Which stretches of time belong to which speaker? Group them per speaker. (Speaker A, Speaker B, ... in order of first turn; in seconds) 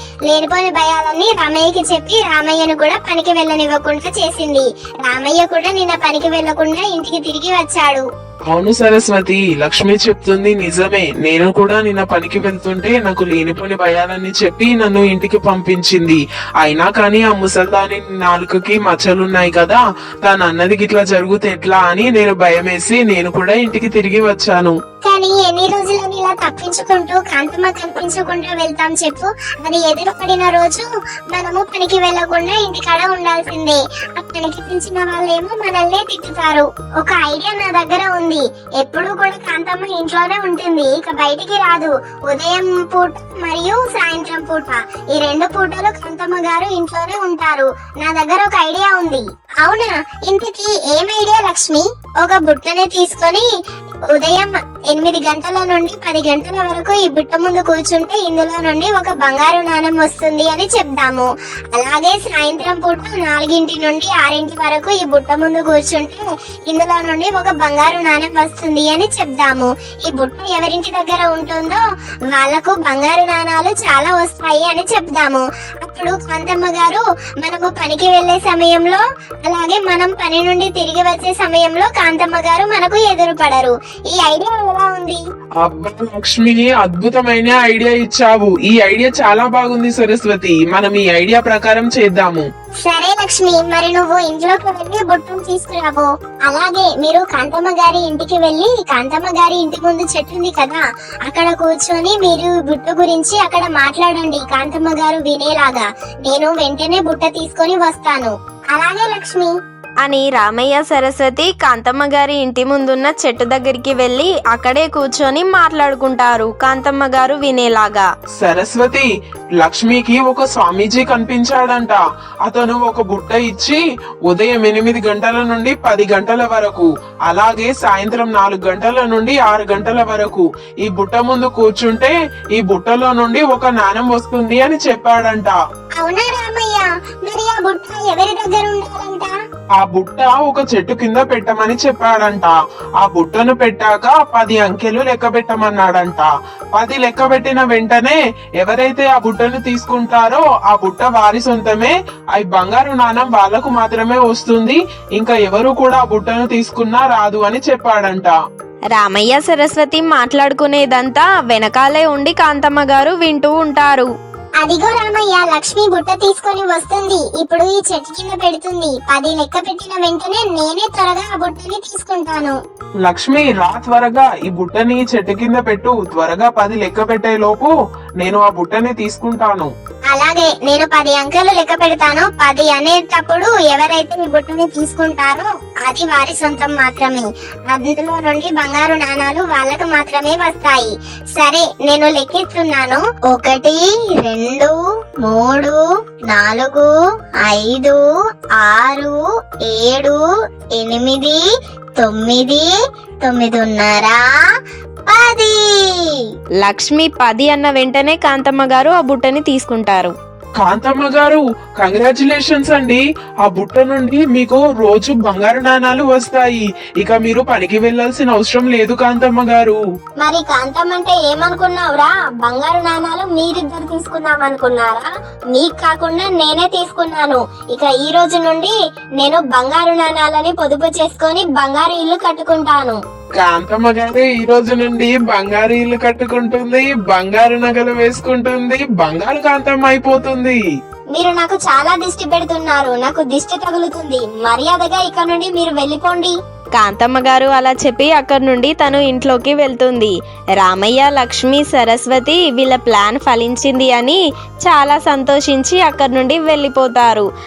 Speaker A: 0.3-8.1, 25.0-53.5, 54.1-85.2, 92.8-109.5, 136.0-139.3, 164.6-172.6, 180.1-195.8, 196.3-196.9, 197.4-198.0, 198.6-200.2, 200.8-201.4, 202.0-202.7, 203.2-204.2, 205.1-206.2, 220.2-233.0, 241.1-246.4
Speaker B: 8.5-24.8, 85.6-92.5, 118.4-135.6, 139.8-158.3, 173.0-179.7, 210.6-219.8, 233.4-240.6
Speaker C: 110.0-118.1, 158.9-164.1, 206.6-210.1, 246.8-257.2